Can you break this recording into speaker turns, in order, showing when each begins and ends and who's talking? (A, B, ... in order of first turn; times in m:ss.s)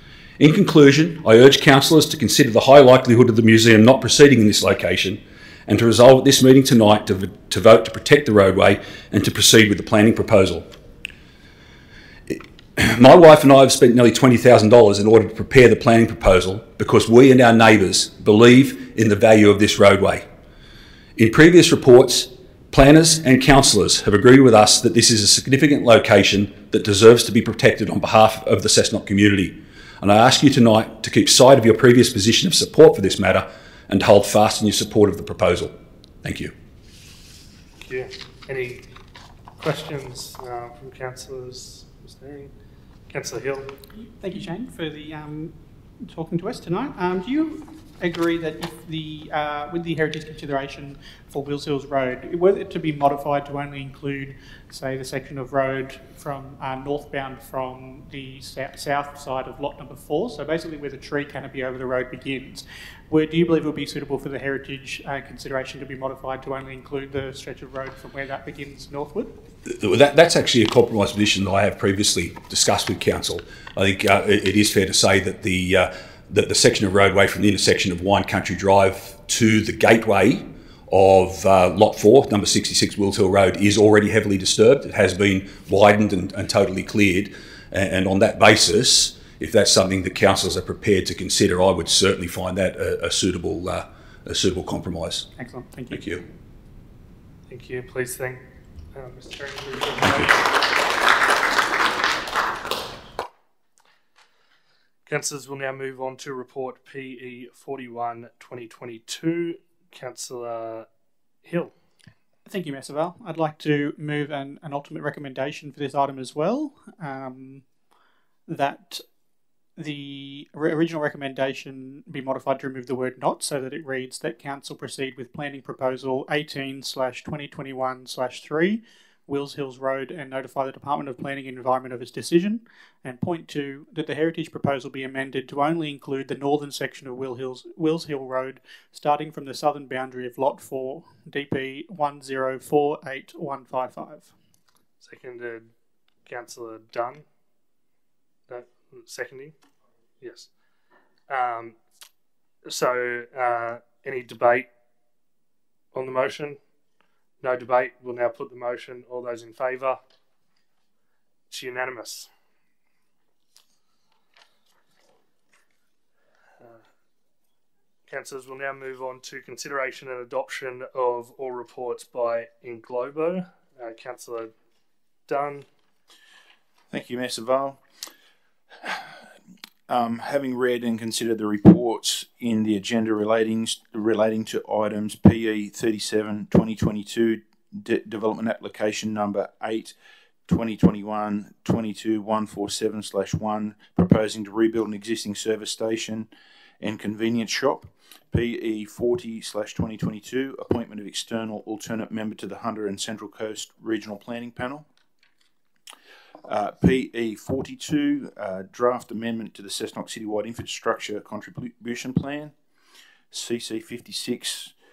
0:00.4-0:10.7 A
0:12.3-0:20.2 A
0:21.2-0:36.5 A
0:37.8-0:38.8 B
0:39.6-0:42.5 B
0:43.1-0:43.7 B
0:44.0-1:09.3 C
1:09.7-1:35.3 A
1:35.4-1:36.0 C
1:35.9-1:36.2 A
1:37.5-1:38.4 B
1:38.9-1:40.4 B
1:45.0-1:50.9 B
1:51.4-1:51.7 B
1:52.4-1:57.7 C
1:58.5-1:59.0 C
1:59.8-2:24.3 C
2:25.0-2:25.7 B
2:26.2-2:27.2 B
2:28.5-2:29.5 B
2:30.2-2:30.5 B
2:31.3-2:31.8 B
2:32.6-2:34.7 B
2:35.9-2:36.6 B
2:37.4-2:40.0 B
2:41.5-2:42.3 B
2:48.1-2:54.5 B
2:55.3-2:55.7 B
2:56.9-2:57.8 D
2:59.9-3:09.9 D
3:10.5-3:16.3 D
3:16.8-3:24.8 D
3:26.4-3:32.5 D
3:33.3-3:34.7 D